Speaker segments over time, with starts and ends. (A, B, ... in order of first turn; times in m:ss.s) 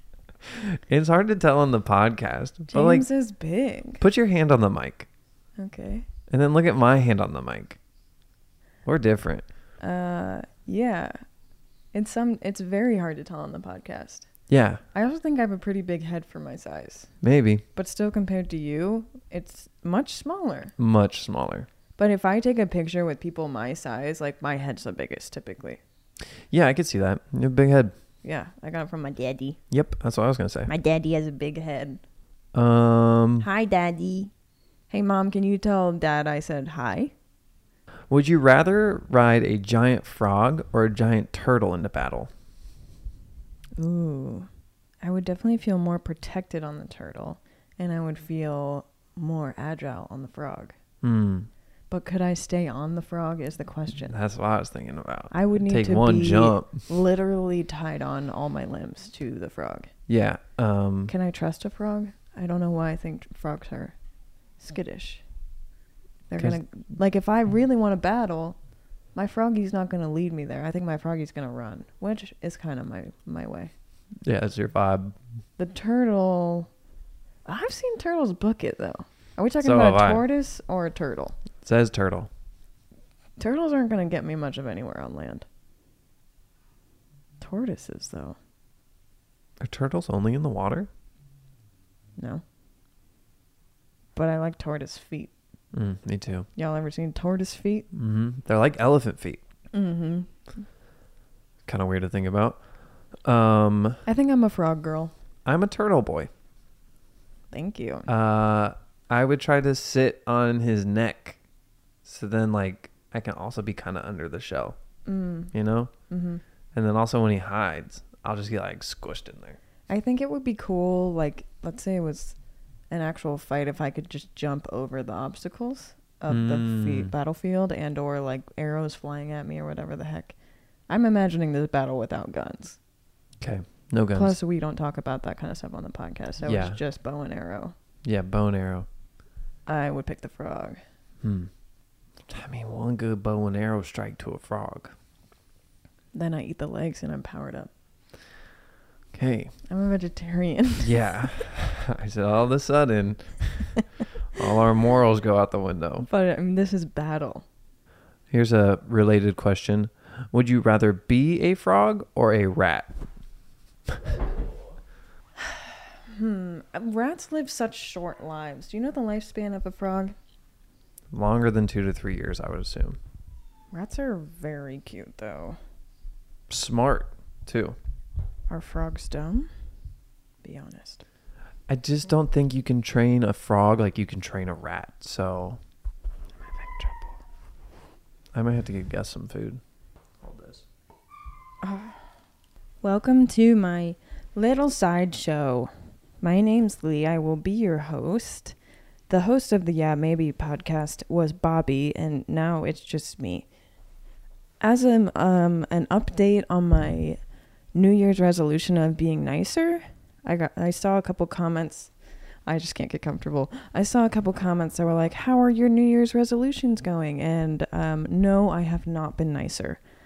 0:00.5-0:03.1 A
0:02.7-0:04.0 B
0:04.0-0:05.1 A
0:05.6-0:06.1 B
0:06.3-0:07.8 A
0:08.9-0:09.4 A
0:09.8-0:11.1 B
0:11.9-0:14.3 B
0:14.5-0:14.8 A
0:14.9-0:17.1 B
0:17.2-0:17.6 A
0:17.8-0:20.7 B
0:20.8-0:21.7 A
0:22.0-0:25.8 B
0:26.5-0:27.9 A
0:28.2-0:29.6 B
0:29.7-0:30.7 A
0:30.7-0:32.0 B
0:32.5-0:33.5 A
0:33.4-0:34.3 B
0:34.9-0:37.1 B
0:38.1-0:42.3 A
0:43.8-0:44.5 B
0:45.0-0:50.8 B
0:51.0-0:51.5 A
0:51.9-0:54.1 B
0:54.1-0:56.8 A
0:55.3-0:59.9 B
1:00.1-1:01.1 A
1:01.1-1:04.0 B
1:04.6-1:05.2 B
1:06.3-1:08.6 B
1:09.1-1:13.7 B
1:14.2-1:15.2 A
1:15.6-1:16.7 B
1:17.4-1:21.4 B
1:19.6-1:20.2 A
1:21.6-1:22.3 A
1:23.4-1:25.5 B
1:27.4-1:28.4 B
1:29.6-1:30.9 A
1:32.2-1:32.4 B
1:34.2-1:35.3 B
1:35.7-1:36.5 A
1:36.6-1:37.9 B
1:37.9-1:39.4 A
1:39.7-1:40.3 B
1:41.7-1:42.6 A
1:43.2-1:44.0 A
1:44.1-1:45.1 B
1:45.5-1:46.3 A
1:47.5-1:48.1 B
1:48.1-1:51.4 A
1:52.0-1:54.8 A
1:55.1-1:55.5 B
1:55.5-1:55.9 A
1:56.1-1:56.4 B
1:56.7-1:59.6 A
1:59.9-2:02.4 B
2:02.9-2:10.4 B
2:06.3-2:07.1 A
2:10.9-2:12.8 B
2:13.4-2:14.4 A
2:14.1-2:17.7 B
2:16.4-2:16.8 A
2:18.0-2:18.9 A
2:19.7-2:20.8 B
2:21.2-2:21.5 A
2:22.3-2:24.9 A
2:26.1-2:27.7 B
2:29.1-2:29.5 A
2:29.7-2:31.3 B
2:30.8-2:33.8 A
2:34.3-2:36.1 A
2:36.0-2:37.4 B
2:38.3-2:42.9 A
2:45.4-2:50.2 B
2:51.1-2:53.0 A
2:53.7-2:55.6 B
2:56.5-2:57.8 A
2:58.5-2:59.5 B
3:00.4-3:01.0 B
3:01.7-3:05.6 A
3:06.4-3:07.2 B
3:08.3-3:09.6 A
3:10.2-3:10.6 A
3:11.6-3:12.0 B
3:12.8-3:18.6 B
3:19.1-3:23.5 B
3:24.6-3:27.2 B
3:27.7-3:31.9 B
3:32.4-3:39.8 B